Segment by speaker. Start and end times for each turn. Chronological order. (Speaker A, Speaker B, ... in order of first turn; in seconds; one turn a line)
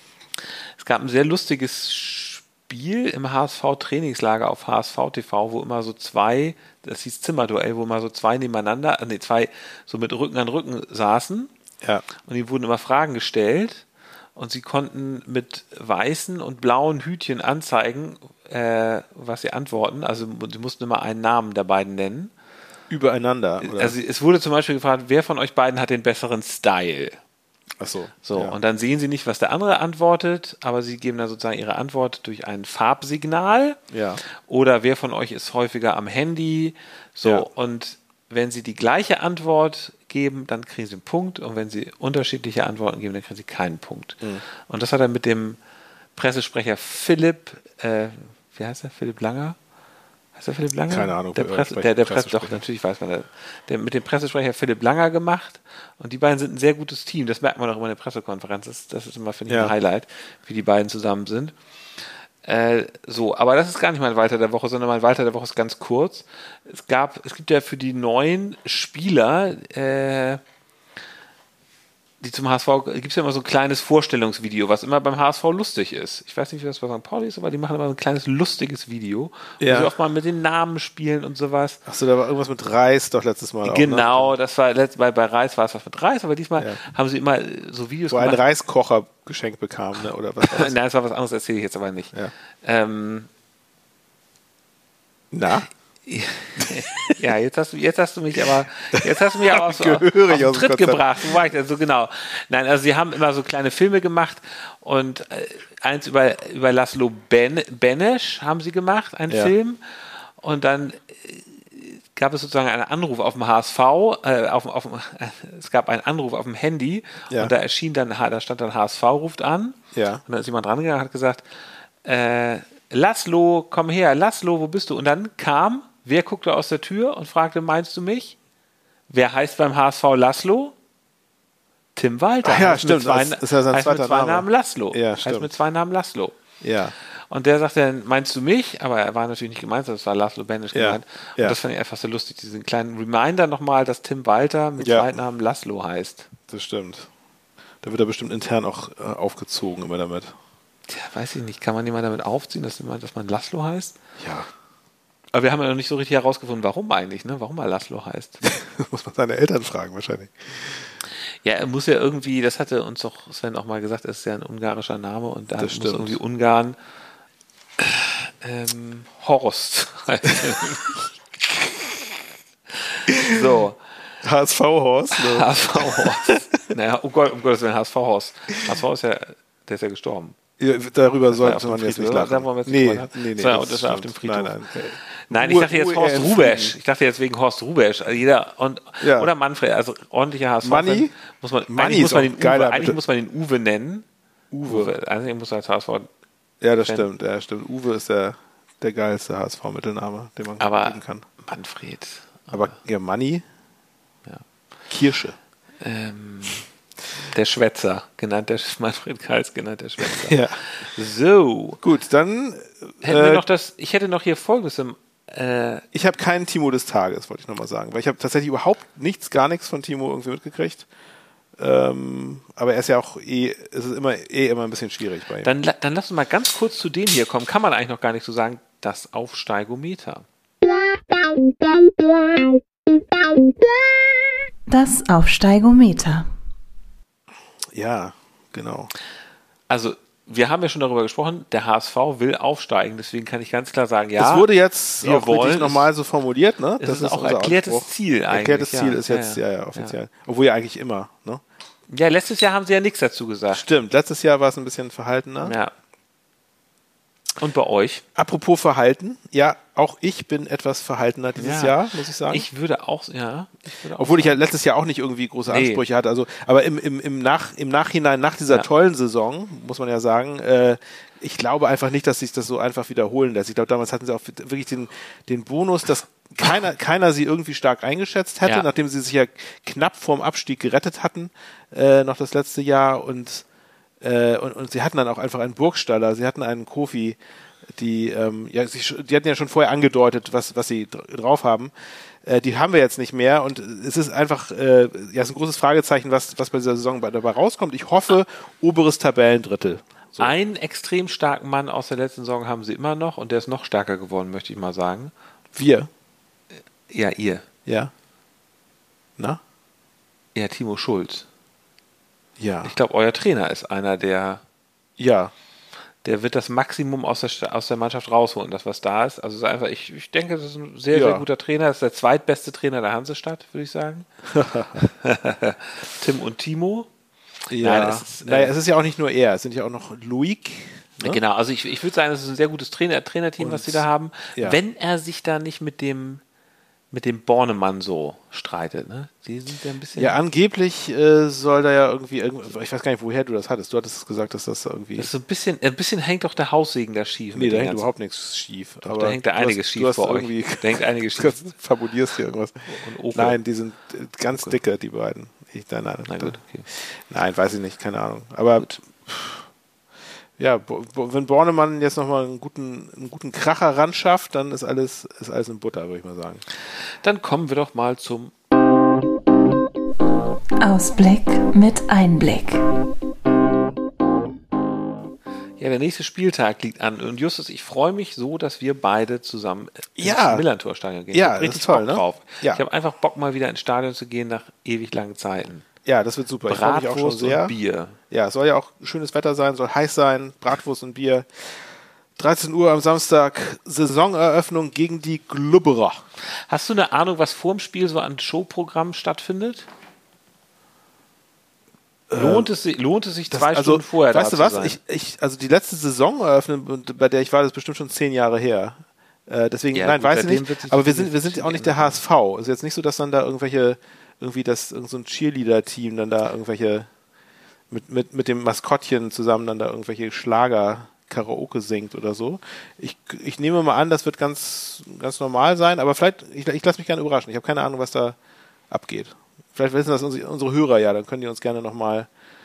Speaker A: 0.8-11.5
Speaker A: 12.2-13.8
Speaker A: 14.3-22.3
Speaker B: 22.9-23.9
Speaker A: 23.6-27.2
Speaker B: 27.8-28.6
Speaker A: 28.2-33.8
Speaker B: 33.9-34.2
Speaker A: 34.4-45.6
Speaker A: 46.1-49.6
Speaker A: 50.3-61.5
Speaker B: 50.9-52.6
Speaker B: 59.5-59.7
Speaker A: 62.4-70.4
Speaker A: 72.2-81.8
Speaker B: 79.6-79.9
Speaker B: 81.8-84.3
Speaker A: 83.6-88.4
Speaker B: 88.1-90.7
Speaker A: 90.4-93.3
Speaker B: 95.3-95.7
Speaker A: 96.0-121.4
Speaker B: 96.6-97.1
Speaker B: 98.9-101.4
Speaker B: 119.9-120.2
Speaker A: 122.0-128.4
Speaker A: 129.1-130.7
Speaker A: 131.9-136.4
Speaker B: 132.4-135.5
Speaker B: 136.6-136.9
Speaker A: 137.3-146.3
Speaker B: 140.7-141.6
Speaker B: 144.8-145.1
Speaker B: 146.5-147.1
Speaker B: 147.8-150.3
Speaker A: 150.9-153.9
Speaker B: 154.2-154.5
Speaker A: 155.3-158.4
Speaker B: 158.4-160.9
Speaker A: 161.4-166.8
Speaker B: 165.6-166.2
Speaker A: 167.8-171.1
Speaker A: 172.8-173.8
Speaker B: 173.1-173.4
Speaker B: 174.2-176.4
Speaker A: 175.1-180.3
Speaker B: 180.6-186.8
Speaker A: 181.3-194.1
Speaker B: 189.0-189.3
Speaker B: 190.6-191.1
Speaker B: 191.7-193.0
Speaker B: 194.5-194.9
Speaker A: 194.6-196.1
Speaker B: 196.6-201.2
Speaker A: 196.8-197.1
Speaker A: 200.6-202.7
Speaker B: 202.5-203.4
Speaker B: 204.9-205.4
Speaker A: 205.8-206.7
Speaker A: 207.2-211.8
Speaker B: 210.1-210.6
Speaker B: 211.8-213.4
Speaker A: 213.0-215.8
Speaker B: 215.9-220.9
Speaker B: 221.6-225.5
Speaker A: 225.4-230.2
Speaker C: 234.7-236.3
Speaker B: 237.7-238.9
Speaker A: 239.7-244.5
Speaker B: 244.2-251.4
Speaker A: 245.0-245.9
Speaker A: 246.8-249.9
Speaker A: 251.9-253.6
Speaker B: 253.5-255.5
Speaker A: 255.4-255.7
Speaker A: 257.4-258.0
Speaker B: 258.1-262.4
Speaker A: 261.4-264.4
Speaker B: 264.0-283.4
Speaker A: 265.5-265.8
Speaker B: 284.0-287.2
Speaker B: 287.7-300.3
Speaker A: 300.2-305.1
Speaker B: 305.5-305.9
Speaker A: 306.9-307.4
Speaker B: 307.6-307.9
Speaker A: 310.3-311.3
Speaker B: 312.4-312.7
Speaker A: 312.6-314.4
Speaker B: 315.0-315.3
Speaker A: 316.0-324.1
Speaker B: 320.9-321.2
Speaker B: 324.3-324.9
Speaker A: 324.8-326.9
Speaker B: 327.5-331.2
Speaker A: 327.6-328.5
Speaker A: 331.0-336.2
Speaker B: 333.4-334.6
Speaker A: 336.9-340.2
Speaker B: 339.9-345.1
Speaker A: 344.9-347.9
Speaker B: 347.3-359.4
Speaker A: 348.8-351.4
Speaker A: 352.7-353.4
Speaker A: 356.1-356.6
Speaker B: 360.4-366.4
Speaker A: 367.0-368.3
Speaker C: 370.6-372.6
Speaker A: 375.6-385.6
Speaker B: 380.0-380.4
Speaker B: 381.1-382.6
Speaker B: 385.8-387.5
Speaker A: 386.4-388.0
Speaker B: 388.1-391.6
Speaker B: 392.2-396.0
Speaker A: 396.5-399.7
Speaker B: 402.1-402.5
Speaker A: 402.1-404.8
Speaker B: 403.3-416.9
Speaker A: 409.7-412.0
Speaker B: 417.7-428.2
Speaker B: 428.7-432.1